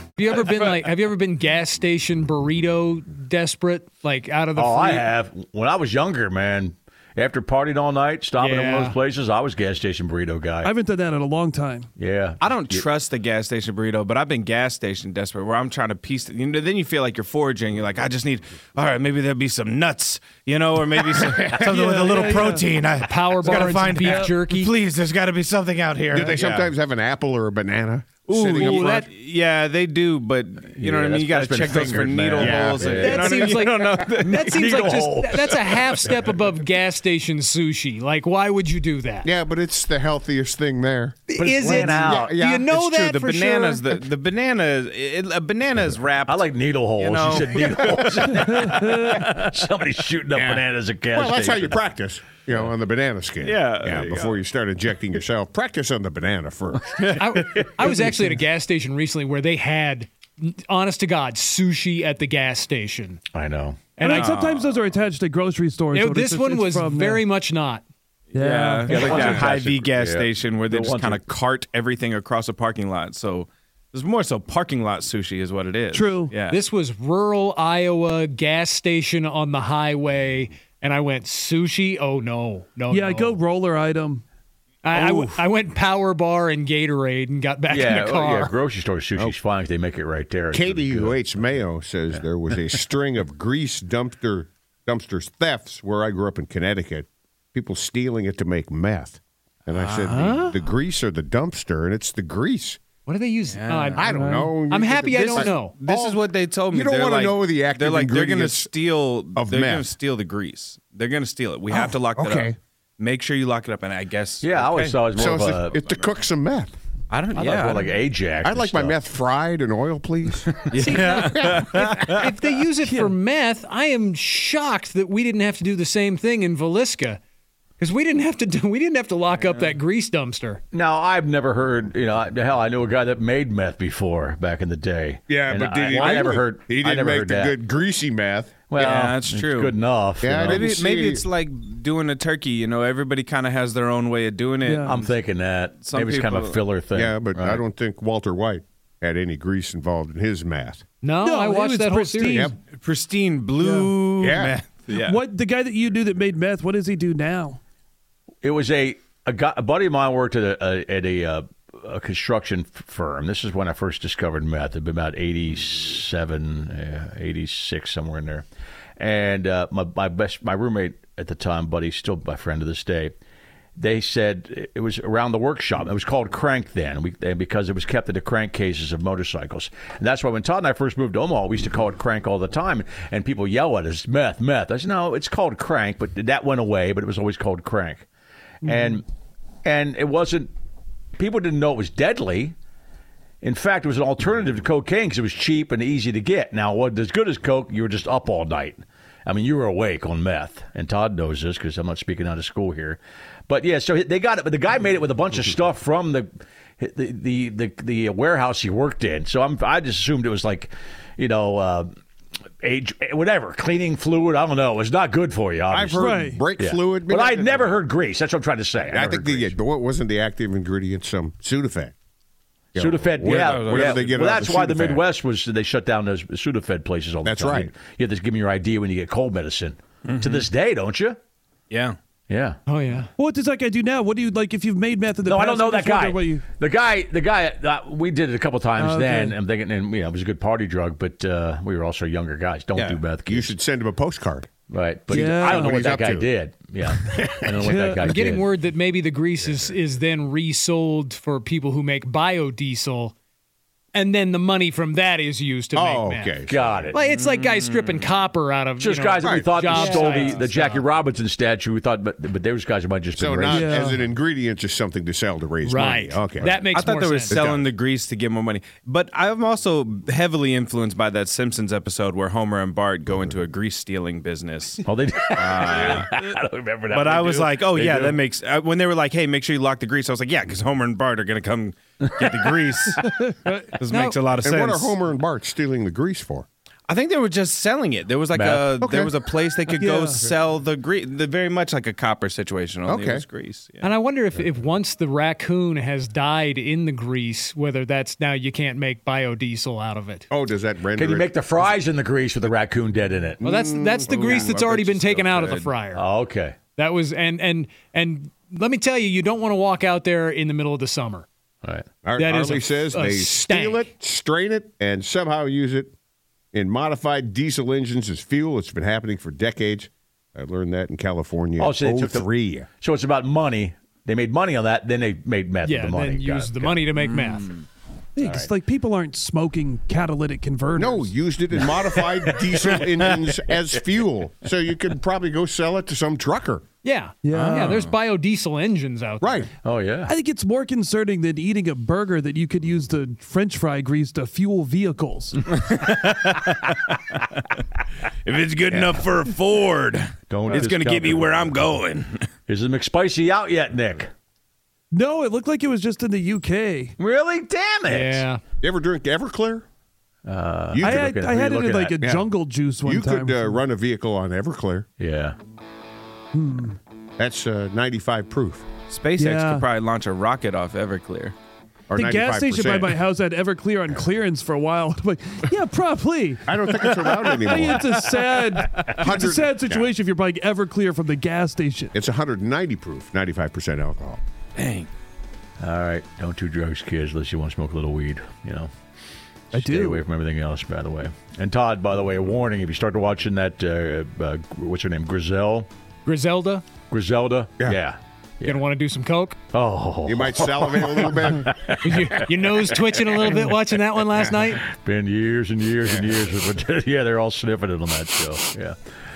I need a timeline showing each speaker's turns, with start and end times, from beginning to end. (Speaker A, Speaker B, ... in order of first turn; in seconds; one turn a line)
Speaker A: 0.2-5.1
Speaker B: 4.5-10.8
Speaker A: 8.4-9.0
Speaker C: 10.6-11.9
Speaker B: 12.0-12.9
Speaker D: 12.4-26.7
Speaker C: 21.6-22.6
Speaker A: 22.9-24.7
Speaker C: 24.0-24.3
Speaker E: 26.1-28.9
Speaker D: 28.3-34.9
Speaker A: 28.6-29.1
Speaker B: 30.8-33.3
Speaker E: 31.7-33.1
Speaker A: 32.8-39.3
Speaker B: 34.2-36.3
Speaker E: 39.2-42.7
Speaker A: 41.3-43.9
Speaker B: 41.3-42.3
Speaker D: 42.7-48.2
Speaker B: 46.2-51.8
Speaker E: 50.3-56.8
Speaker D: 53.4-54.4
Speaker A: 57.1-63.2
Speaker B: 63.3-63.9
Speaker A: 64.0-64.3
Speaker C: 64.0-67.2
Speaker D: 64.0-64.8
Speaker A: 65.9-67.8
Speaker D: 68.3-76.6
Speaker C: 68.3-69.4
Speaker B: 68.9-71.2
Speaker C: 75.9-76.3
Speaker A: 76.5-83.4
Speaker C: 82.9-84.2
Speaker A: 84.8-88.5
Speaker C: 84.9-85.4
Speaker B: 87.7-91.5
Speaker E: 90.5-102.8
Speaker D: 99.7-100.2
Speaker A: 100.1-100.6
Speaker A: 103.0-105.7
Speaker D: 103.5-104.1
Speaker E: 104.0-108.7
Speaker C: 104.2-104.5
Speaker D: 105.2-115.0
Speaker E: 109.3-109.9
Speaker E: 111.7-112.5
Speaker B: 114.4-115.8
Speaker E: 115.2-116.7
Speaker D: 117.1-118.0
Speaker B: 117.3-119.0
Speaker E: 118.4-121.7
Speaker D: 120.7-122.1
Speaker A: 120.7-127.2
Speaker C: 122.8-123.1
Speaker A: 127.8-130.6
Speaker D: 129.3-129.8
Speaker B: 130.7-137.6
Speaker E: 135.3-138.6
Speaker B: 138.7-140.7
Speaker D: 138.8-139.8
Speaker E: 140.2-141.2
Speaker D: 140.4-145.2
Speaker C: 144.6-145.0
Speaker B: 144.9-147.6
Speaker D: 145.8-146.7
Speaker E: 146.9-150.8
Speaker A: 151.0-152.5
Speaker C: 151.2-152.5
Speaker D: 152.7-155.2
Speaker C: 153.6-153.9
Speaker E: 154.2-154.6
Speaker C: 154.9-157.6
Speaker B: 158.4-168.4
Speaker B: 169.0-173.1
Speaker B: 173.8-188.1
Speaker B: 188.6-189.0
Speaker B: 189.6-190.5
Speaker B: 191.2-192.5
Speaker B: 193.4-211.9
Speaker B: 212.6-216.1
Speaker E: 215.7-217.7
Speaker C: 216.0-216.4
Speaker B: 216.6-219.6
Speaker E: 218.9-221.9
Speaker E: 222.7-225.0
Speaker B: 222.8-231.2
Speaker D: 223.2-224.4
Speaker E: 227.2-227.7
Speaker D: 230.1-230.5
Speaker D: 231.7-232.0
Speaker B: 232.3-232.6
Speaker A: 232.7-233.1
Speaker C: 233.2-236.4
Speaker B: 235.3-243.5
Speaker C: 238.8-239.4
Speaker D: 242.7-243.0
Speaker E: 243.2-244.5
Speaker B: 244.7-248.5
Speaker E: 245.1-246.3
Speaker C: 245.1-245.7
Speaker C: 247.6-248.2
Speaker A: 248.0-253.1
Speaker A: 253.9-256.4
Speaker E: 255.7-256.9
Speaker B: 256.5-257.0
Speaker A: 256.9-260.8
Speaker D: 257.0-258.1
Speaker B: 258.8-263.7
Speaker E: 259.2-259.5
Speaker D: 260.1-260.4
Speaker E: 263.1-266.6
Speaker C: 263.5-264.0
Speaker A: 265.6-267.4
Speaker D: 266.7-274.8
Speaker E: 267.3-267.7
Speaker B: 274.8-278.2
Speaker D: 275.3-276.1
Speaker D: 276.9-283.1
Speaker C: 283.0-283.6
Speaker D: 283.7-284.9
Speaker A: 283.9-284.2
Speaker E: 284.4-286.5
Speaker D: 286.9-293.9
Speaker B: 288.3-288.8
Speaker E: 288.8-289.2
Speaker C: 289.8-290.2
Speaker E: 292.9-293.2
Speaker A: 293.8-300.3
Speaker E: 300.3-301.7
Speaker B: 300.9-303.5
Speaker A: 303.4-306.0
Speaker E: 303.4-305.6
Speaker B: 305.9-306.6
Speaker A: 306.8-311.3
Speaker E: 312.0-315.9
Speaker A: 312.1-313.9
Speaker E: 316.5-322.7
Speaker B: 321.6-326.8
Speaker A: 325.6-327.5
Speaker D: 327.2-327.5
Speaker C: 328.1-331.1
Speaker B: 328.2-328.5
Speaker E: 330.8-336.6
Speaker A: 336.8-339.4
Speaker C: 337.2-337.8
Speaker D: 337.3-337.9
Speaker E: 339.2-339.5
Speaker B: 339.6-340.1
Speaker C: 340.1-345.4
Speaker D: 345.5-347.4
Speaker D: 348.2-352.2
Speaker B: 350.3-351.7
Speaker B: 352.5-354.1
Speaker C: 354.9-356.9
Speaker B: 357.0-358.2
Speaker A: 357.9-358.4
Speaker E: 358.6-359.6
Speaker B: 360.2-362.0
Speaker E: 360.7-361.0
Speaker C: 360.8-363.6
Speaker E: 362.0-362.3
Speaker E: 362.8-364.9
Speaker B: 365.0-365.4
Speaker C: 366.3-366.8
Speaker E: 367.2-368.6
Speaker D: 368.9-371.3
Speaker C: 369.2-369.6
Speaker E: 371.9-372.9
Speaker C: 371.9-381.9
Speaker E: 376.5-377.9
Speaker E: 379.0-379.9
Speaker E: 381.9-384.2
Speaker D: 384.6-384.9
Speaker B: 385.6-388.7
Speaker B: 389.5-395.7
Speaker C: 389.5-390.0
Speaker A: 396.1-396.6
Speaker B: 396.9-398.6
Speaker A: 398.4-399.4
Speaker B: 399.5-402.2
Speaker E: 400.1-401.5
Speaker A: 401.8-404.6
Speaker B: 403.2-403.4
Speaker B: 404.6-408.8